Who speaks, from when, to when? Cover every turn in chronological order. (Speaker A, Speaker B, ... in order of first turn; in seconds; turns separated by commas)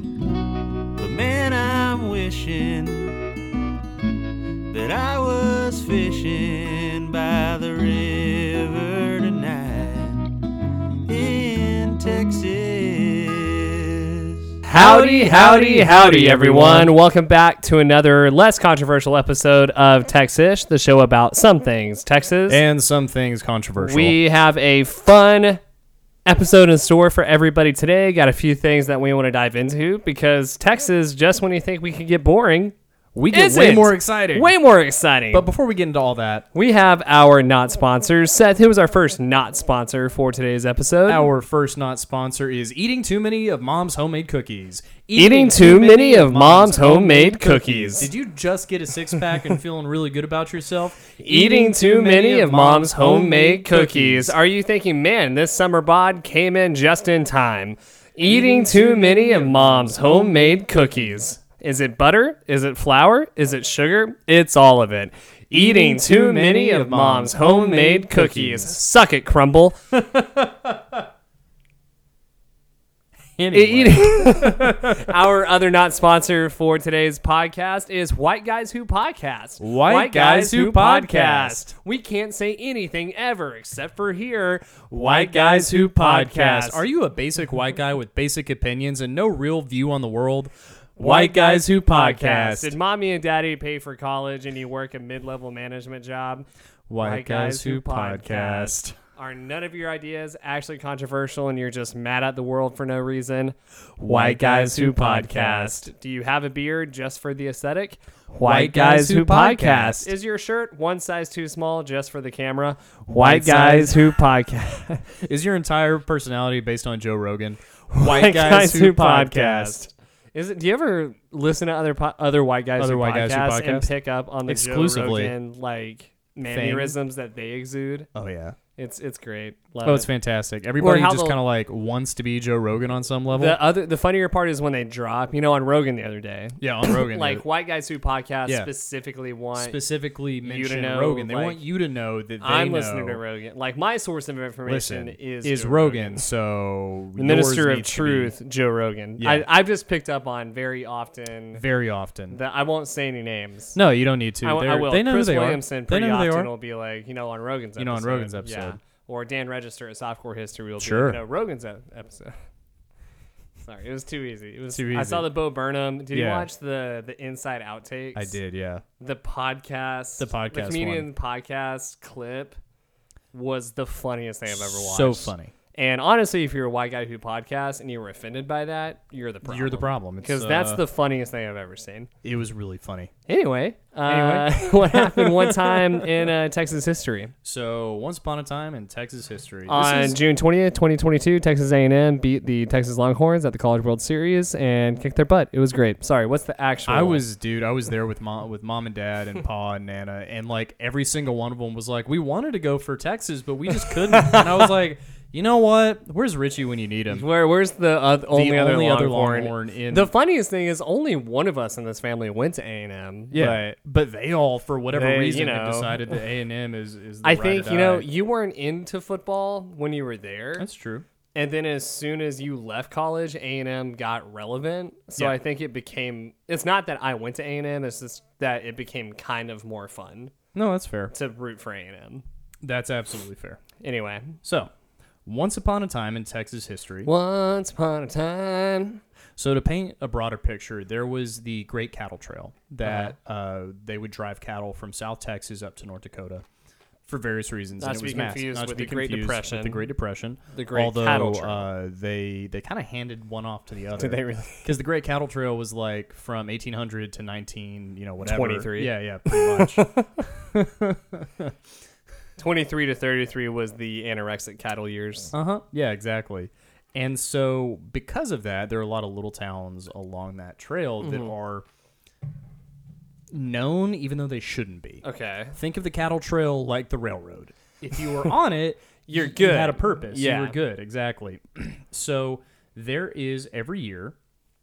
Speaker A: 1.0-3.2, Speaker A: 4.7-10.4, Speaker A: 11.1-14.4, Speaker B: 14.7-22.6, Speaker C: 14.8-17.0, Speaker C: 22.5-24.2, Speaker B: 23.8-25.6, Speaker B: 26.2-32.8, Speaker C: 33.1-34.6, Speaker B: 33.3-35.5, Speaker C: 35.3-36.5, Speaker B: 36.5-41.3, Speaker C: 41.1-54.3, Speaker B: 45.1-48.1, Speaker B: 51.2-70.0, Speaker C: 58.2-60.1, Speaker C: 65.5-68.8, Speaker C: 73.4-75.2, Speaker B: 73.5-86.8, Speaker C: 79.6-81.7, Speaker C: 84.9-92.8, Speaker B: 91.0-96.5, Speaker C: 96.9-99.0, Speaker B: 97.0-115.1, Speaker C: 104.0-105.9, Speaker C: 108.4-110.1, Speaker C: 113.1-114.2, Speaker C: 115.2-119.9, Speaker B: 117.9-128.1, Speaker C: 122.8-123.9, Speaker C: 124.5-125.3, Speaker C: 126.5-127.0, Speaker C: 128.1-128.6, Speaker B: 128.8-130.1, Speaker C: 129.8-133.6, Speaker B: 130.8-131.4, Speaker B: 133.3-139.8, Speaker C: 136.6-137.4, Speaker C: 139.6-143.2, Speaker B: 140.4-141.6, Speaker B: 142.4-146.2, Speaker C: 144.7-148.3, Speaker B: 147.2-151.7, Speaker C: 149.2-149.4, Speaker C: 151.5-152.4, Speaker B: 152.3-153.8, Speaker C: 153.8-156.5, Speaker B: 154.4-162.4, Speaker C: 157.8-158.8, Speaker C: 160.8-161.2, Speaker B: 163.6-168.4, Speaker C: 164.7-165.3, Speaker C: 166.1-166.5, Speaker C: 168.1-168.8, Speaker B: 169.0-172.6, Speaker C: 170.2-171.1, Speaker B: 173.3-182.1, Speaker C: 174.5-175.5, Speaker C: 179.4-180.8, Speaker C: 182.2-183.1, Speaker B: 183.3-187.3, Speaker C: 184.0-186.2, Speaker C: 187.4-190.2, Speaker B: 189.7-197.2, Speaker C: 196.9-207.2, Speaker B: 203.9-204.7, Speaker B: 207.1-213.6, Speaker C: 208.3-210.1, Speaker C: 213.3-218.1, Speaker B: 214.9-216.0, Speaker B: 217.2-220.7, Speaker C: 220.6-221.1, Speaker B: 221.3-230.3, Speaker C: 230.5-231.1, Speaker B: 231.1-232.2, Speaker C: 232.6-233.6, Speaker B: 233.8-234.3, Speaker C: 234.4-234.7, Speaker C: 235.2-237.1, Speaker B: 237.1-239.0, Speaker C: 239.4-246.4, Speaker B: 242.8-243.1, Speaker C: 247.1-259.9, Speaker B: 247.8-249.8, Speaker B: 250.5-251.7, Speaker B: 253.9-254.7, Speaker B: 258.2-260.2, Speaker C: 260.5-261.6, Speaker B: 262.4-265.3, Speaker C: 265.3-271.6, Speaker B: 271.0-271.3, Speaker C: 273.3-284.1, Speaker B: 275.0-275.6, Speaker B: 279.1-280.6